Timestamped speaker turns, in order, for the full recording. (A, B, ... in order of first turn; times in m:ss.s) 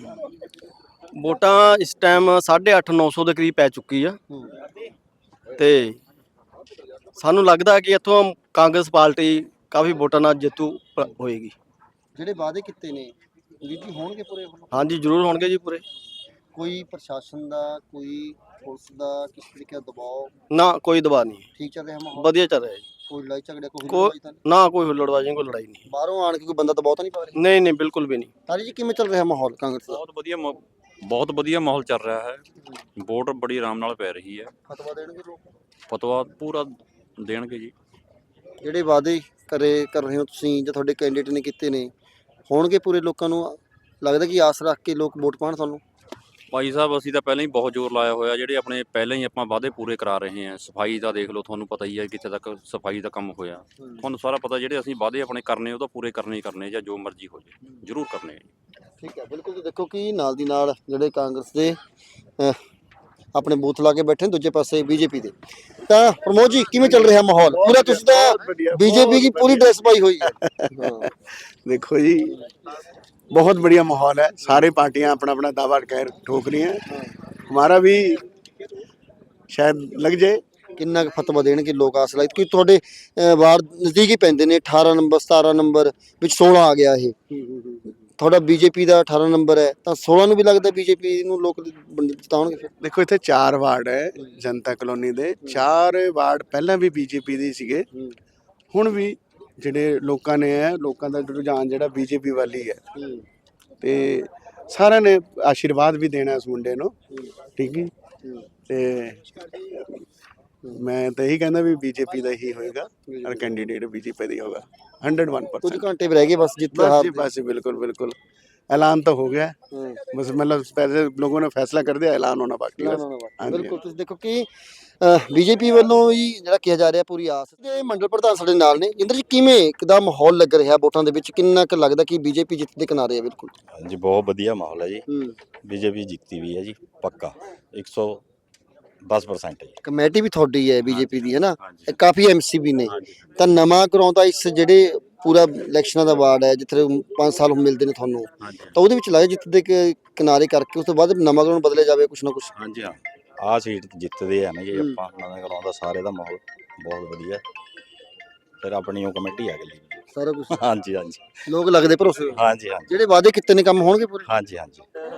0:01.2-0:04.2 A
0:05.6-0:06.0 A
0:07.2-0:11.6 A
0:12.2-0:14.8 B
0:14.7-0:15.8 A
0:16.6-0:20.3 B
0:20.5-0:21.5 A
0:21.6-0:22.4 B
0:22.1-0:22.9 A
0:23.1-0:24.4 B
0:23.9-0:25.9 A
0:25.9-0:27.4 B
0:27.4-0:28.3 A
0:28.5-0:30.0 B
0:29.9-0:32.4 C
0:33.0-0:34.5 C
0:34.7-0:35.4 B
0:35.9-0:36.7 C
0:37.2-0:37.7 C
0:38.6-0:41.9 B
0:42.5-0:45.8 B
0:46.5-0:58.4 C
0:59.0-1:01.8 B
1:03.4-1:05.3 B
1:05.9-1:11.1 B
1:06.7-1:10.9 D
1:11.6-1:12.4 D
1:13.3-1:16.9 D
1:16.9-1:17.2 B
1:17.5-1:18.2 D
1:19.5-1:20.4 D
1:20.8-1:32.7 B
1:32.8-1:37.9 D
1:35.4-1:35.7 B
1:38.7-1:42.8 D
1:43.0-1:43.2 B
1:43.8-1:46.9 D
1:47.6-1:47.9 D
1:48.7-1:50.0 D
1:50.7-1:55.8 D
1:53.1-1:53.5 B
1:55.6-1:57.3 B
1:56.7-1:58.2 D
1:58.7-1:59.6 D
1:59.7-2:00.0 B
2:00.1-2:03.8 D
2:02.8-2:04.5 B
2:05.0-2:13.5 B
2:13.7-2:15.0 E
2:15.1-2:15.4 B
2:15.6-2:18.2 E
2:19.0-2:19.8 E
2:19.8-2:32.5 B
2:20.8-2:22.0 E
2:22.8-2:23.2 E
2:28.4-2:28.8 E
2:32.6-2:37.4 E
2:34.7-2:35.0 B
2:38.6-2:40.0 E
2:40.1-2:40.6 B
2:40.5-2:41.4 E
2:41.5-2:44.3 B
2:42.4-2:42.9 E
2:44.3-2:44.8 E